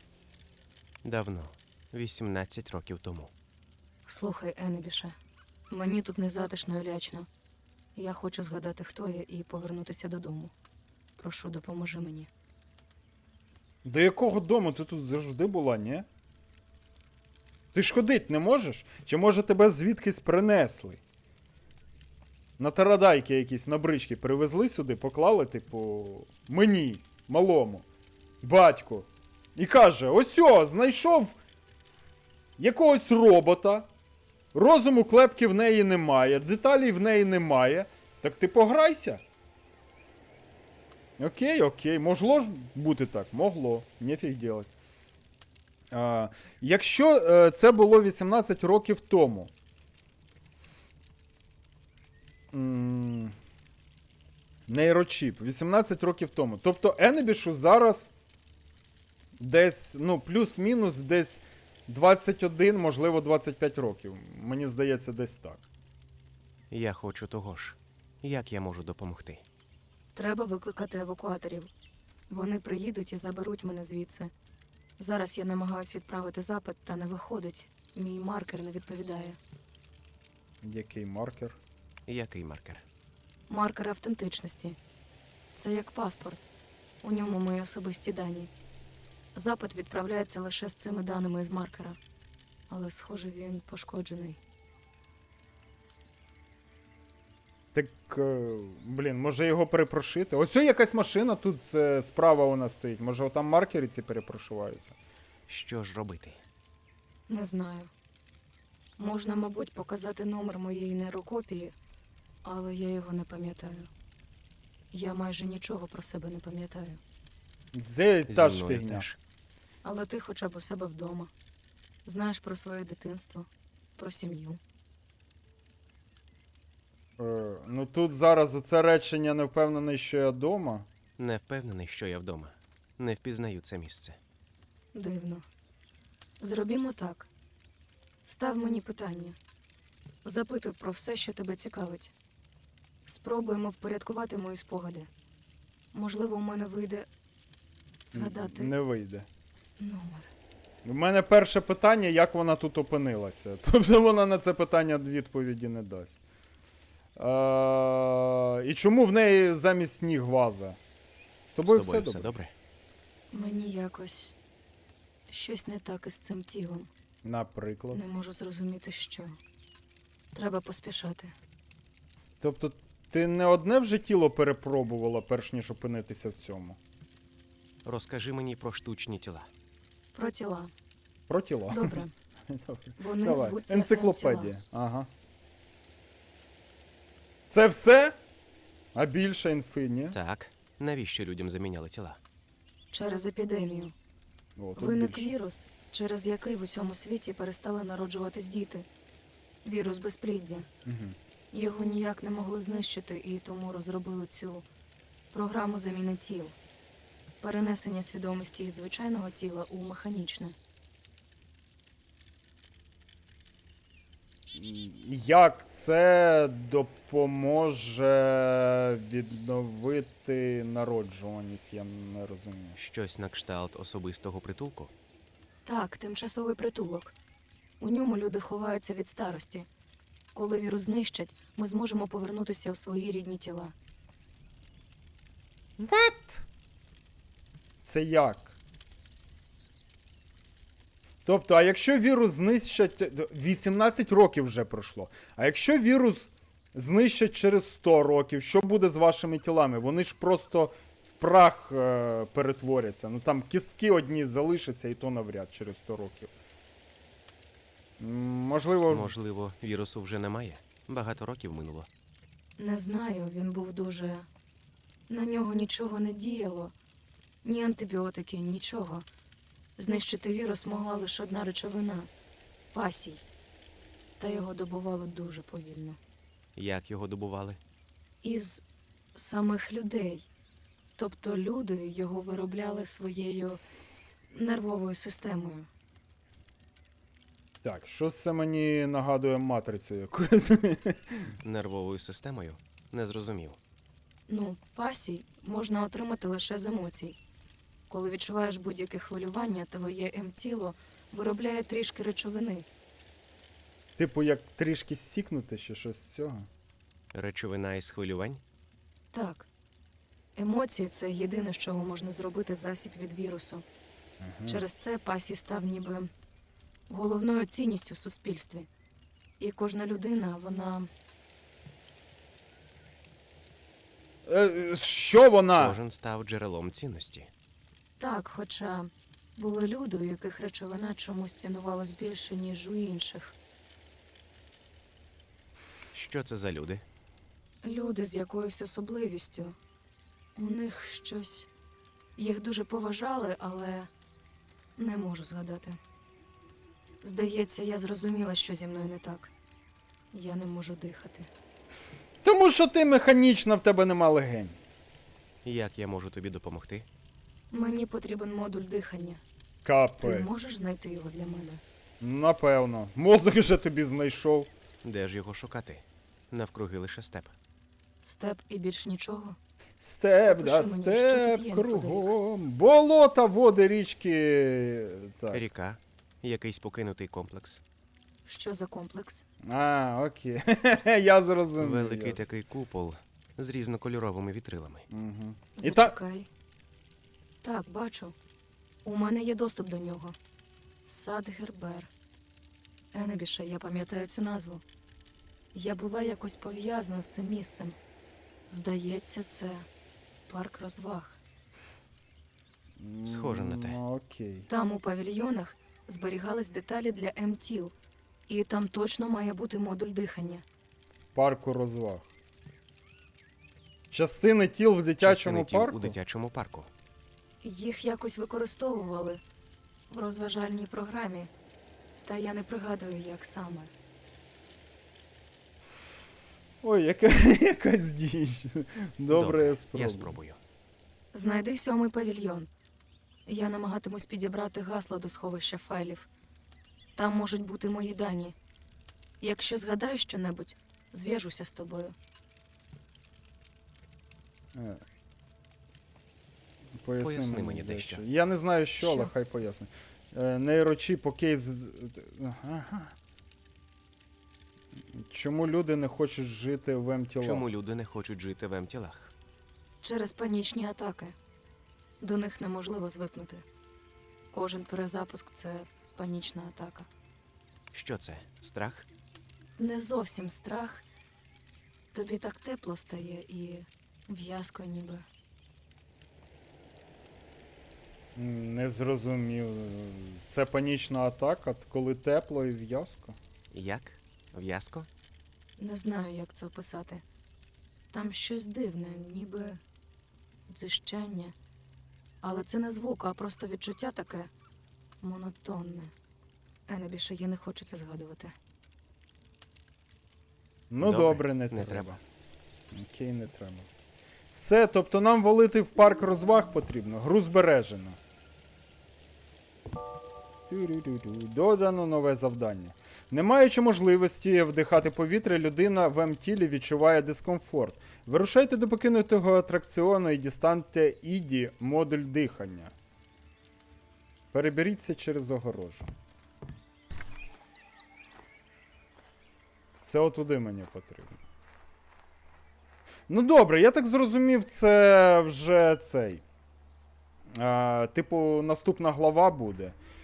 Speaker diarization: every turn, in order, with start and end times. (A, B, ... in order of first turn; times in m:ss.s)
0:01.0-0:03.3 A
0:04.0-0:05.1 B
0:05.7-0:07.3 B
0:07.9-0:10.5 B
0:11.2-0:12.3 B
0:13.8-0:16.0 C
0:17.7-0:21.0 C
0:22.6-0:27.8 C
0:28.4-0:31.4 C
0:32.6-0:33.9 C
0:34.5-0:39.2 C
0:41.2-0:44.7 C
0:45.9-0:49.5 C
0:52.5-0:53.4 C
0:54.7-0:58.1 C
0:59.4-1:05.6 C
1:06.7-1:09.4 A
1:10.1-1:11.7 B
1:12.3-1:14.3 B
1:15.0-1:19.4 B
1:20.6-1:21.6 C
1:22.1-1:22.8 A
1:23.5-1:24.8 B
1:25.5-1:26.5 B
1:27.0-1:28.5 B
1:29.3-1:32.0 B
1:32.7-1:34.4 B
1:37.7-1:45.0 C
1:45.5-1:46.4 A
1:47.3-1:47.9 B
1:49.0-1:51.7 B
1:52.4-1:53.9 B
1:54.9-1:57.0 B
1:57.7-1:59.0 C
1:58.3-1:59.2 A
1:59.8-2:01.3 B
2:02.0-2:04.6 B
2:07.2-2:10.9 C
2:11.2-2:14.2 A
2:14.9-2:15.4 B
2:16.4-2:17.3 B
2:18.2-2:19.4 B
2:20.2-2:22.1 B
2:23.0-2:25.1 B
2:25.9-2:27.1 B
2:28.1-2:28.8 B
2:28.1-2:29.3 C
2:29.8-2:30.3 B
2:30.8-2:36.2 C
2:37.2-2:40.8 C
2:41.5-2:42.3 C
2:41.6-2:42.5 A
2:43.3-2:44.4 B
2:45.3-2:46.9 B
2:47.2-2:48.0 C
2:47.9-2:49.4 B
2:50.3-2:51.3 B
2:52.4-2:56.8 C
2:57.8-2:59.5 A
3:00.1-3:00.7 B
3:01.3-3:05.1 C
3:01.7-3:02.1 B
3:03.0-3:04.5 B
3:07.5-3:08.2 C
3:08.9-3:10.2 C
3:10.1-3:12.2 A
3:12.9-3:13.9 B
3:14.6-3:15.3 C
3:14.8-3:18.9 B
3:19.6-3:20.7 B
3:20.8-3:21.2 C
3:21.5-3:24.6 B
3:25.3-3:26.6 B
3:27.4-3:30.6 B
3:34.5-3:42.8 C
3:42.8-3:44.9 A
3:45.6-3:47.1 B
3:47.8-3:49.7 B
3:50.3-3:53.7 B
3:55.8-3:56.4 C
3:57.8-3:58.5 C
4:01.2-4:16.3 C
4:18.0-4:19.1 C
4:18.9-4:21.9 A
4:22.6-4:24.3 B
4:25.1-4:26.7 B
4:27.4-4:29.0 B
4:29.8-4:32.1 B
4:32.7-4:33.2 B
4:34.2-4:36.0 B
4:36.6-4:37.6 A
4:38.2-4:38.6 B
4:39.1-4:40.3 B
4:41.0-4:43.6 B
4:44.3-4:45.7 B
4:47.6-4:51.3 C
4:51.4-4:53.6 A
4:54.3-4:57.2 B
4:57.9-5:02.7 B
5:04.0-5:06.5 C
5:07.1-5:08.4 A
5:09.1-5:09.5 B
5:10.4-5:13.6 B
5:14.2-5:14.6 C
5:14.5-5:16.1 B
5:16.9-5:18.7 B
5:19.4-5:20.9 B
5:24.2-5:25.8 C
5:25.6-5:27.3 A
5:28.0-5:33.3 B
5:35.9-5:36.8 A
5:37.6-5:39.6 B
5:40.4-5:41.5 B
5:42.2-5:43.9 B
5:44.8-5:45.8 B
5:47.0-5:49.3 B
5:50.1-5:51.3 B
5:52.2-5:54.6 C
5:55.4-5:56.9 A
5:57.5-5:59.2 B
5:59.6-6:00.4 C
6:00.0-6:01.6 B
6:02.0-6:04.5 C
6:04.8-6:07.3 A
6:08.0-6:09.4 B
6:09.8-6:15.4 C
6:10.2-6:12.1 B
6:15.3-6:17.6 A
6:18.2-6:19.2 B
6:19.4-6:22.2 C
6:21.6-6:24.8 A
6:24.9-6:26.0 C
6:25.6-6:26.3 B
6:27.4-6:28.1 B
6:28.8-6:30.2 B
6:30.8-6:31.9 B
6:32.9-6:34.6 B
6:35.5-6:37.8 B
6:38.5-6:39.7 B
6:40.3-6:41.2 B
6:42.8-6:44.5 C
6:43.0-6:43.8 A
6:44.5-6:47.7 B
6:48.3-6:50.4 B
6:51.1-6:52.1 C
6:53.9-6:56.0 C
6:55.0-6:56.7 A
6:57.4-6:59.2 B
6:59.9-7:01.3 B
7:02.0-7:03.7 B
7:06.6-7:10.1 C
7:09.1-7:10.4 A
7:11.1-7:12.5 B
7:13.2-7:16.1 B
7:17.0-7:18.4 B
7:19.2-7:21.9 B
7:24.5-7:24.8 C
7:26.8-7:32.9 C
7:27.0-7:28.0 A
7:28.8-7:29.1 B
7:34.9-7:37.5 C
7:37.2-7:39.1 A
7:39.8-7:41.1 B
7:42.0-7:43.4 B
7:44.3-7:46.9 B
7:47.7-7:48.9 A
7:49.6-7:50.8 B
7:51.9-7:55.0 B
7:58.2-8:03.2 C
8:03.5-8:04.9 A
8:05.6-8:07.0 B
8:07.9-8:09.6 B
8:10.5-8:11.3 B
8:12.2-8:14.3 B
8:15.0-8:15.9 B
8:16.7-8:18.3 B
8:20.7-8:22.0 C
8:20.8-8:21.9 A
8:22.7-8:23.7 C
8:24.3-8:28.0 C
8:30.5-8:42.7 C
8:44.3-8:45.9 C
8:49.8-8:51.2 C
8:53.1-8:56.2 C
8:57.4-8:59.8 C